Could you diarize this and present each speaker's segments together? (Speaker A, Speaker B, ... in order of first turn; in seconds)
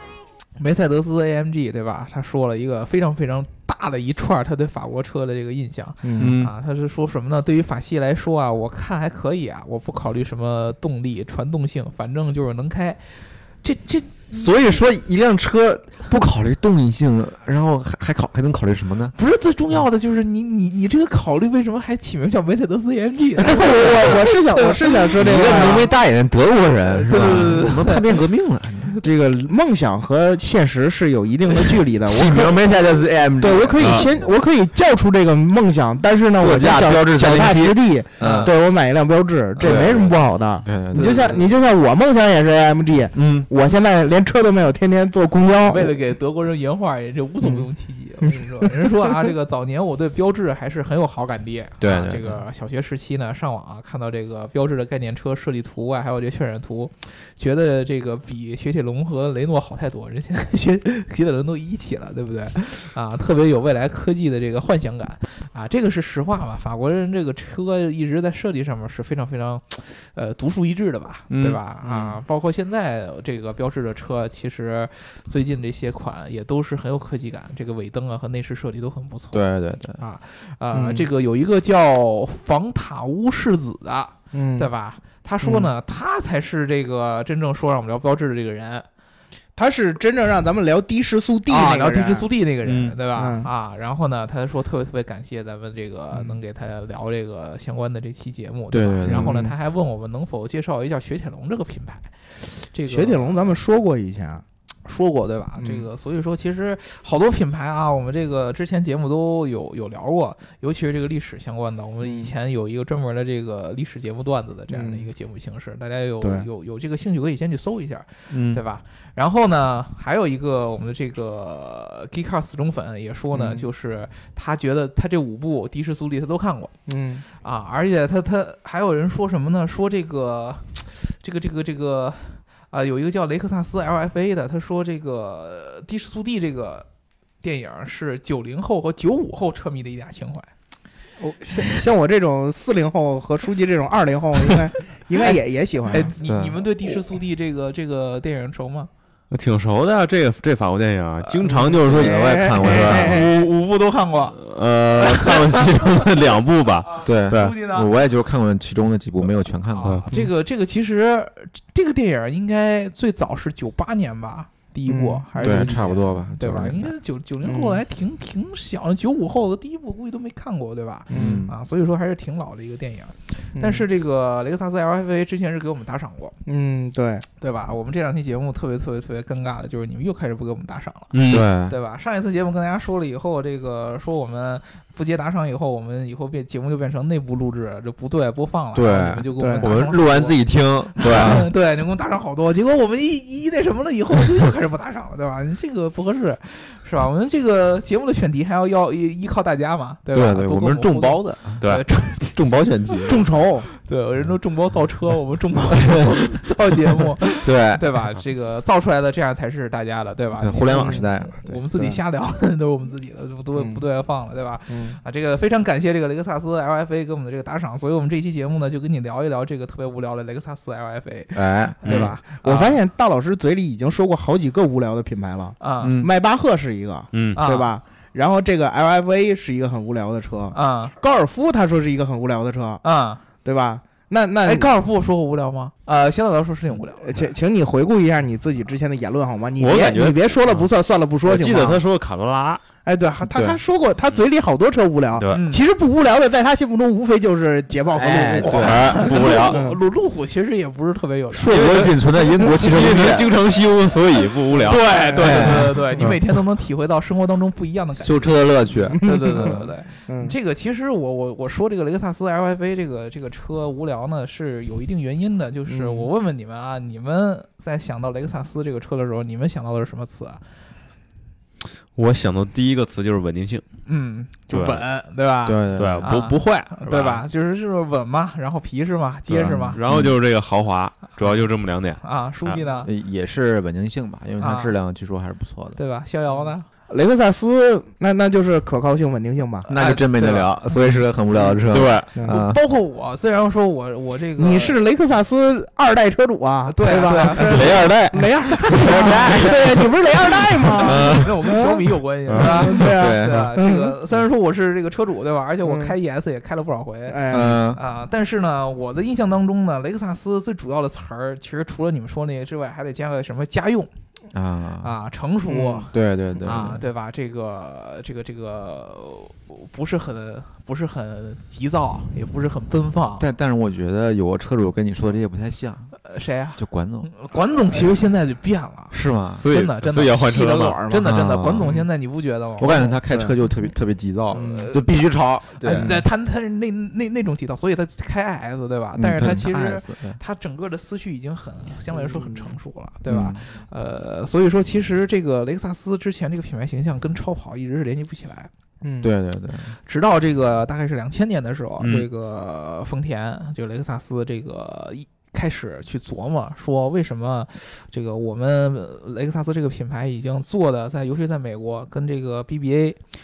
Speaker A: 0.6-14.8, 19.1-25.8, 26.9-28.2, 38.2-38.5, 40.9-41.4, 45.6-79.4, 80.0-88.8, 91.5-103.6, 104.8-126.7, 127.3-136.9, 137.4-140.5, 145.9-148.9, 152.8-154.4, 154.9-156.0, 157.2-157.9, 159.7-176.4, 177.4-222.8, 225.6-225.9, 227.3-227.7, 230.5-230.9, 232.8-233.2, 234.4-237.3, 245.3-245.6, 248.4-251.9, 254.7-270.4, 273.9-279.8, 282.0-282.9, 284.4-284.7, 285.7-286.6, 289.8-290.6, 292.3-294.8, 296.6-298.0, 299.0-299.6, 300.6-313.9, 314.8-323.3, 326.0-333.0, 334.3-334.9, 335.5-348.5, 349.8-363.0
Speaker B: 6.0-6.4, 23.4-25.9, 29.0-32.6, 33.4-46.0, 47.4-47.7, 48.2-49.3, 71.8-72.2, 80.7-81.1, 84.3-84.7, 85.4-85.7, 89.5-92.3, 93.1-93.5, 96.1-96.4, 99.0-99.5, 102.9-104.4, 105.6-105.9, 112.0-112.3, 114.7-115.1, 116.2-116.5, 123.3-123.7, 126.9-127.2, 141.2-146.1, 151.4-153.3, 164.9-165.7, 167.4-167.8, 171.1-171.4, 173.6-173.8, 176.4-177.3, 189.4-189.7, 203.1-203.7, 210.7-212.0, 213.5-213.8, 214.7-215.0, 221.8-232.8, 233.4-234.7, 237.0-241.8, 242.8-249.8, 254.5-256.1, 258.9-260.3, 265.7-266.1, 286.9-289.7, 290.8-291.6, 292.1-292.4, 294.4-304.0, 305.6-305.9, 307.1-307.7, 315.5-315.9, 330.2-331.9, 333.1-333.3, 334.3-334.7, 335.7-336.0, 341.9-342.5, 348.8-349.1
Speaker C: 6.2-6.5, 14.3-19.1, 23.5-24.2, 25.1-29.0, 31.5-34.3, 36.4-38.5, 39.6-41.5, 43.1-43.5, 51.8-52.4, 71.3-71.6, 79.3-80.0, 92.7-93.0, 98.7-99.4, 118.3-118.6, 146.2-146.6, 151.8-153.3, 157.0-160.0, 165.4-166.9, 171.1-171.5, 181.3-181.8, 188.7-191.5, 200.1-201.7, 202.2-203.2, 207.4-208.0, 210.3-211.4, 221.3-222.1, 225.8-226.1, 243.2-243.6, 247.9-249.1, 251.3-253.3, 255.2-256.2, 258.0-259.6, 275.4-276.2, 279.4-280.1, 282.8-285.8, 289.7-292.6, 298.6-301.3, 302.6-303.5, 307.3-307.8, 314.3-314.9, 315.9-316.9, 323.2-325.9, 326.6-327.1, 328.9-329.4, 331.0-331.8, 332.6-336.0, 338.9-340.2, 343.1-343.4, 349.0-349.8
Speaker D: 33.8-34.1, 149.3-153.3, 154.4-157.6, 181.1-181.5, 227.1-227.4, 239.6-240.7, 241.2-242.6, 245.1-245.4, 248.5-249.6, 251.5-255.7, 271.9-273.6, 274.5-274.8, 275.7-277.2, 279.3-282.6, 291.7-292.1, 297.4-299.2, 329.4-330.8